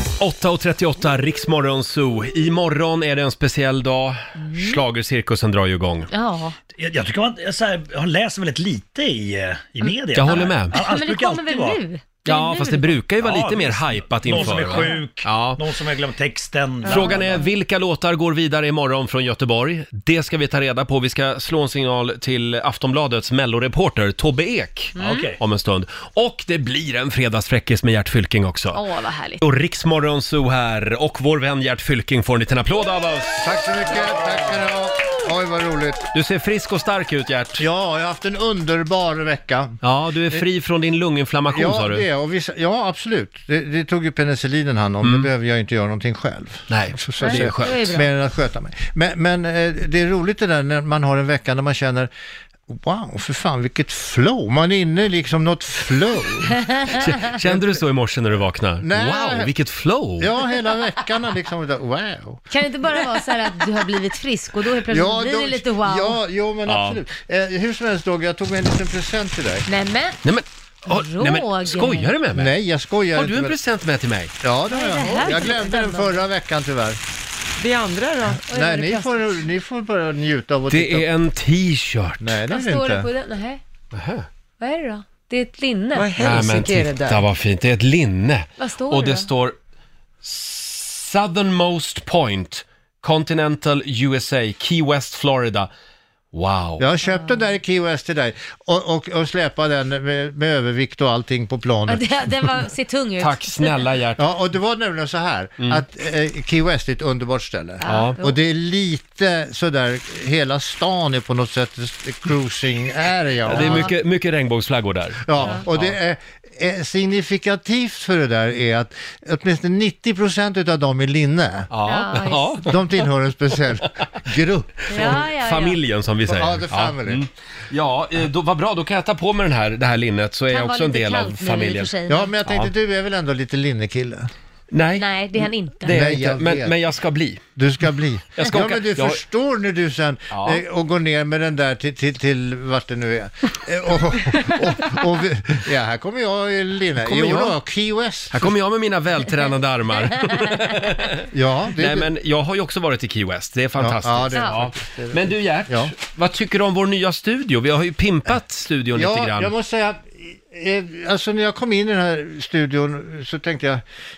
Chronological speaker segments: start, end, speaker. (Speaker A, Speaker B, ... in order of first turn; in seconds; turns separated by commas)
Speaker A: 0.2-6.1, Speaker B: 6.1-6.5, Speaker C: 6.7-11.8, Speaker A: 10.1-10.8, Speaker B: 10.2-13.0, Speaker A: 12.2-15.6, Speaker C: 13.2-17.4, Speaker B: 14.3-15.0, Speaker B: 16.9-17.4, Speaker A: 16.9-28.8, Speaker B: 24.9-25.3, Speaker C: 25.0-25.4, Speaker B: 28.7-29.4, Speaker A: 29.4-33.6, Speaker D: 33.4-36.1, Speaker A: 36.1-37.6, Speaker D: 37.6-39.8, Speaker A: 39.8-42.0, Speaker D: 41.5-52.1, Speaker A: 45.0-45.3, Speaker A: 46.7-48.0, Speaker B: 47.2-48.1, Speaker D: 52.7-56.6, Speaker A: 56.9-60.3, Speaker D: 57.4-57.8, Speaker D: 58.8-59.5, Speaker D: 60.2-62.4, Speaker B: 62.5-66.2, Speaker D: 64.9-69.6, Speaker A: 66.7-67.0, Speaker B: 69.7-70.2, Speaker A: 70.2-72.5, Speaker B: 70.9-72.1, Speaker D: 72.3-73.6, Speaker A: 73.1-74.3, Speaker D: 74.4-77.0, Speaker B: 74.7-76.3, Speaker E: 77.6-78.4, Speaker B: 78.5-79.4, Speaker D: 78.5-81.1, Speaker A: 80.7-82.4, Speaker D: 82.2-83.1, Speaker B: 82.5-83.6, Speaker A: 83.9-84.3, Speaker B: 84.6-86.1, Speaker E: 85.9-87.2, Speaker A: 86.2-89.6, Speaker B: 88.6-89.3, Speaker A: 90.2-95.7, Speaker A: 96.3-96.8, Speaker D: 96.8-102.0, Speaker B: 97.1-97.4, Speaker B: 101.8-103.8, Speaker A: 103.2-104.2, Speaker D: 104.2-113.9, Speaker A: 105.6-105.8, Speaker B: 107.8-108.4, Speaker A: 107.8-108.2, Speaker A: 113.5-116.0, Speaker B: 113.5-113.9, Speaker D: 115.2-121.7, Speaker A: 121.7-122.8, Speaker B: 121.8-122.7, Speaker D: 122.7-125.2, Speaker A: 124.8-131.9, Speaker B: 124.9-125.8, Speaker D: 126.2-127.2, Speaker B: 130.5-132.3, Speaker D: 132.1-134.3, Speaker A: 132.4-132.7, Speaker A: 134.7-135.1, Speaker B: 135.0-136.0, Speaker A: 135.8-137.4, Speaker D: 135.9-136.8, Speaker D: 137.6-148.5, Speaker A: 138.3-139.2, Speaker A: 140.3-140.6, Speaker A: 147.0-147.6, Speaker A: 148.3-159.5, Speaker D: 151.3-152.1, Speaker D: 153.8-156.0, Speaker B: 154.3-154.6, Speaker D: 158.9-163.8